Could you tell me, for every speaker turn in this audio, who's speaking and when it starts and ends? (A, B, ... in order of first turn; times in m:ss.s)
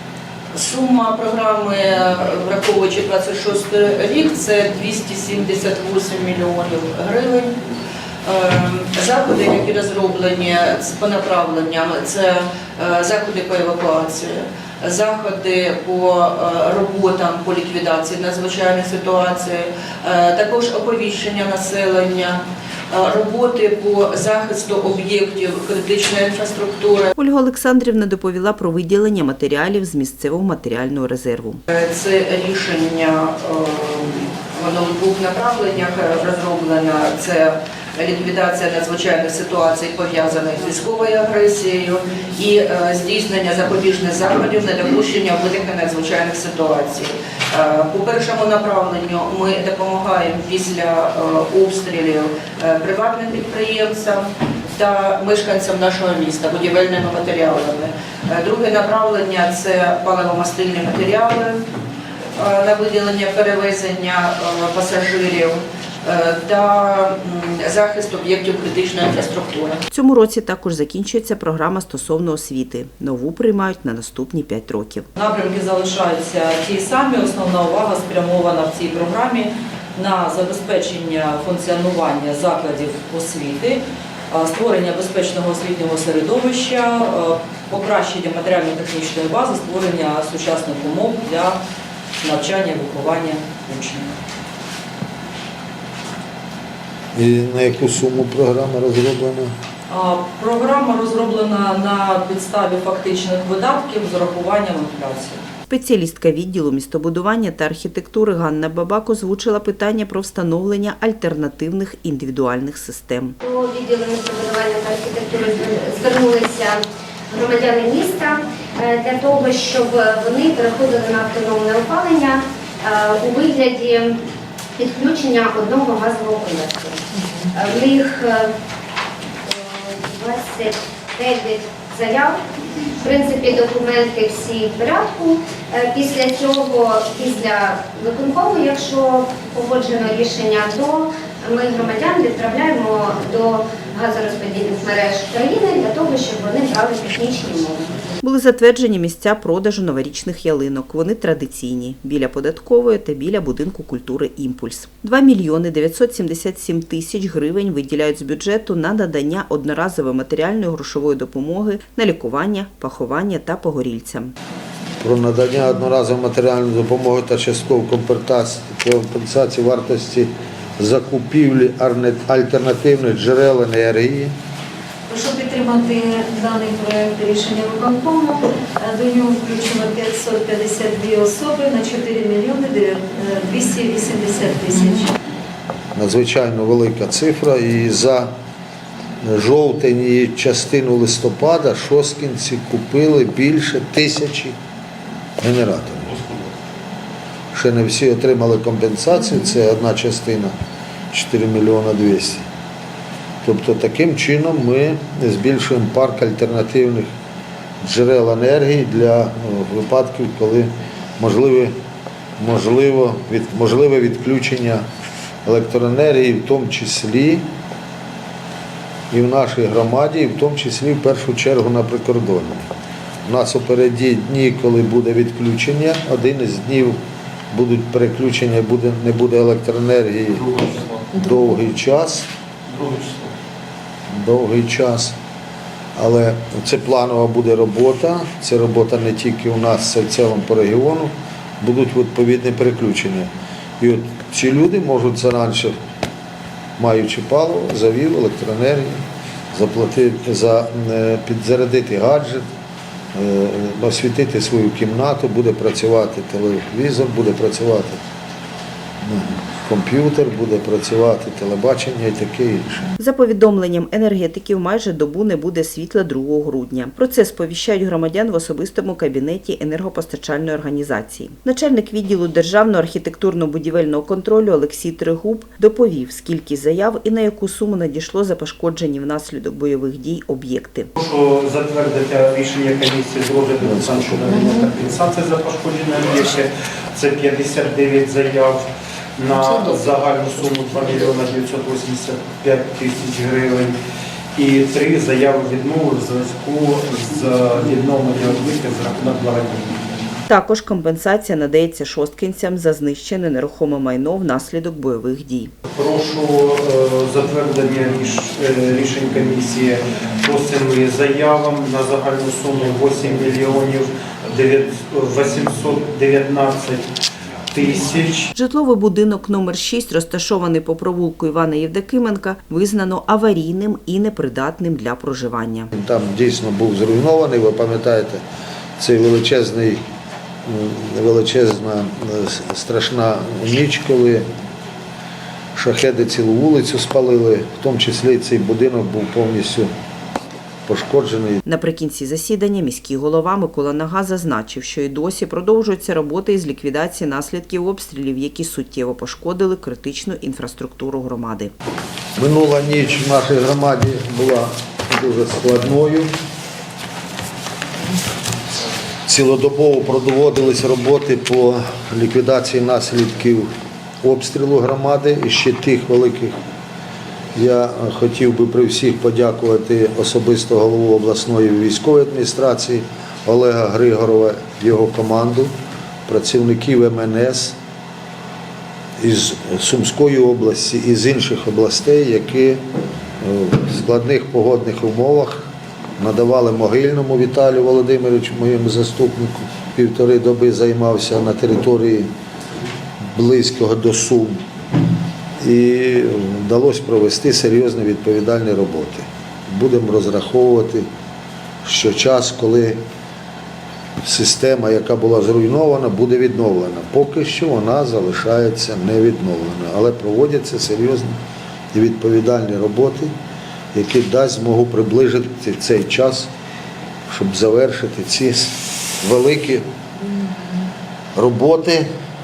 0:00.5-0:27.1 A
0:27.2-0:31.6 B
0:31.7-1:01.6 A
1:02.4-1:09.8 A
1:09.9-1:15.0 B
1:15.2-1:31.6 C
1:32.2-1:34.1 C
1:37.2-1:39.5 D
1:39.9-1:45.4 C
1:45.7-1:53.4 B
1:53.4-2:04.2 E
2:04.8-2:08.5 E
2:09.5-2:12.4 E
2:13.0-2:27.9 E
2:28.2-2:44.3 B
2:45.0-2:54.3 D
2:55.1-3:05.1 F
3:05.9-3:08.3 D
3:09.2-3:14.6 D
3:15.4-3:16.3 D
3:17.5-3:20.5 D
3:21.1-3:22.4 D
3:23.4-3:27.1 D
3:27.8-3:31.7 D
3:32.4-3:34.8 D
3:35.5-3:37.5 D
3:39.1-3:42.7 D
3:43.2-3:47.0 D
3:47.5-3:52.3 D
3:52.7-3:53.3 G
3:54.1-3:55.2 D
3:56.0-4:03.3 D
4:03.8-4:05.8 D
4:06.8-4:09.0 D
4:09.5-4:12.4 D
4:13.1-4:18.0 D
4:19.0-4:22.9 D
4:23.0-4:40.9 B
4:41.0-4:48.6 G
4:43.6-4:44.3 D
4:49.2-4:53.7 G
4:54.4-5:00.0 G
5:00.3-5:05.5 B
5:05.7-5:16.9 G
5:17.5-5:18.3 G
5:18.3-5:25.7 B
5:25.7-5:28.2 D
5:28.8-5:29.8 D
5:30.4-5:34.3 D
5:35.6-5:39.7 D
5:40.7-5:41.4 D
5:41.5-5:51.5 B
5:52.2-5:56.1 D
5:59.1-6:03.5 D
6:04.0-6:06.4 D
6:07.4-6:15.5 D
6:16.1-6:17.6 D
6:19.0-6:22.6 D
6:23.2-6:25.5 D
6:26.0-6:32.1 D
6:33.0-6:34.4 D
6:35.4-6:40.9 D
6:41.6-6:42.8 D
6:44.0-6:51.2 D
6:51.7-6:53.1 D
6:53.7-6:56.3 D
6:57.1-6:59.7 D
7:01.2-7:01.9 D